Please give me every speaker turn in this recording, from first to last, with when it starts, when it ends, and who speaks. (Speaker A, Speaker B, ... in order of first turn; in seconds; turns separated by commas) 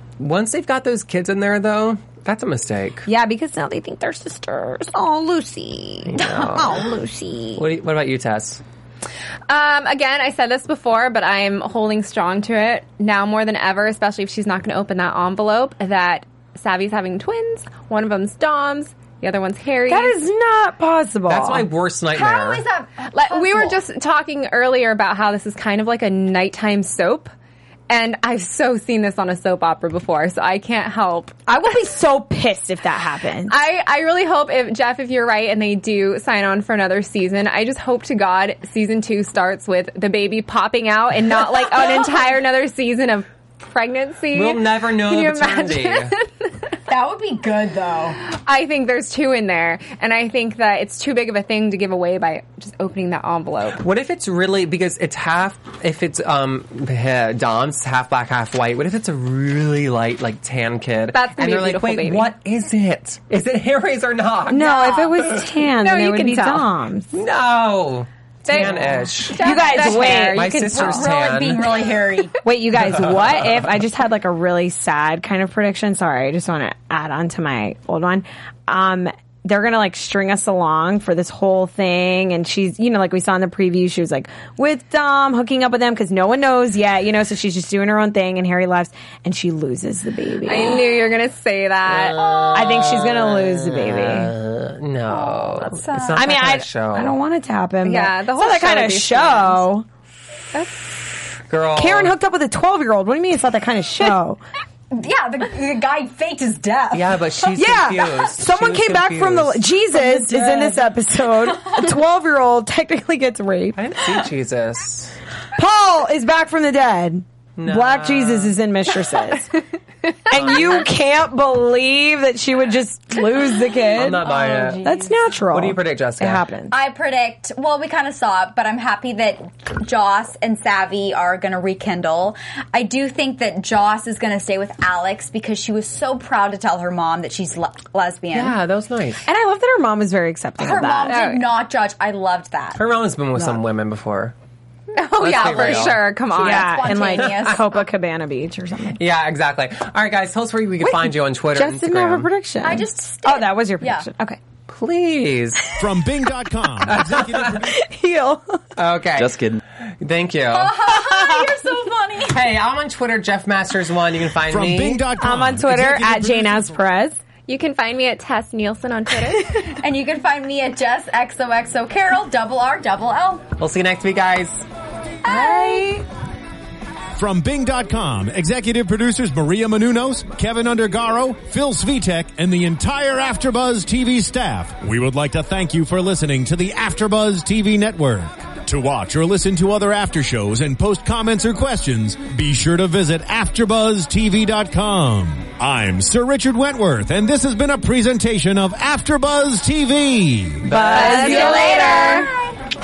Speaker A: 0.2-3.1, Speaker B: 3.1-7.6, Speaker A: 6.1-6.9, Speaker A: 7.6-8.6, Speaker C: 9.5-20.2, Speaker B: 19.9-21.7, Speaker A: 21.3-22.7, Speaker D: 22.1-23.8, Speaker C: 23.1-27.3, Speaker C: 27.9-31.4, Speaker B: 31.5-33.5, Speaker C: 33.5-46.7, Speaker A: 44.3-46.1, Speaker D: 46.9-48.2, Speaker C: 48.2-53.8, Speaker A: 53.8-64.7, Speaker C: 61.1-62.3, Speaker B: 64.5-67.1, Speaker D: 64.6-65.1, Speaker C: 65.8-66.7, Speaker A: 67.1-71.9, Speaker C: 68.5-71.1, Speaker B: 68.5-71.0, Speaker D: 70.8-72.4, Speaker B: 72.4-90.9, Speaker A: 72.8-73.7, Speaker C: 90.5-92.2, Speaker A: 91.9-97.2, Speaker D: 92.2-92.8, Speaker B: 92.5-94.3, Speaker D: 95.1-96.2, Speaker B: 96.2-99.9, Speaker C: 97.8-99.7, Speaker C: 100.5-101.0, Speaker A: 101.5-102.2, Speaker B: 101.8-104.4, Speaker D: 104.9-107.2, Speaker A: 106.9-109.6, Speaker B: 107.5-114.0, Speaker D: 109.9-110.9, Speaker A: 113.8-115.2, Speaker B: 115.6-119.5, Speaker A: 117.6-118.5, Speaker B: 120.3-124.2, Speaker A: 120.3-120.9, Speaker A: 123.9-124.9, Speaker D: 124.2-125.2, Speaker B: 124.8-126.7, Speaker A: 125.5-126.5, Speaker D: 126.7-138.6, Speaker A: 138.3-139.2, Speaker B: 139.2-141.2, Speaker D: 140.6-142.8, Speaker C: 141.1-141.5, Speaker A: 142.8-144.3, Speaker C: 144.9-146.9, Speaker D: 144.9-147.7, Speaker A: 145.2-146.1, Speaker B: 146.4-149.0, Speaker A: 147.2-147.6, Speaker A: 148.9-152.3, Speaker B: 150.8-154.4, Speaker D: 152.6-154.1, Speaker A: 154.7-155.8, Speaker E: 155.8-157.7, Speaker A: 156.8-157.7, Speaker B: 157.6-158.6, Speaker A: 158.8-160.8, Speaker D: 160.5-162.4, Speaker B: 161.1-161.5, Speaker A: 162.2-165.0, Speaker E: 164.5-166.7, Speaker B: 165.2-167.2, Speaker C: 167.5-169.6, Speaker D: 169.6-173.5, Speaker A: 173.6-174.6, Speaker B: 175.2-176.0, Speaker D: 175.2-175.9, Speaker E: 177.2-200.7, Speaker A: 200.6-201.7, Speaker B: 200.7-202.3, Speaker C: 200.9-202.3, Speaker D: 201.0-202.6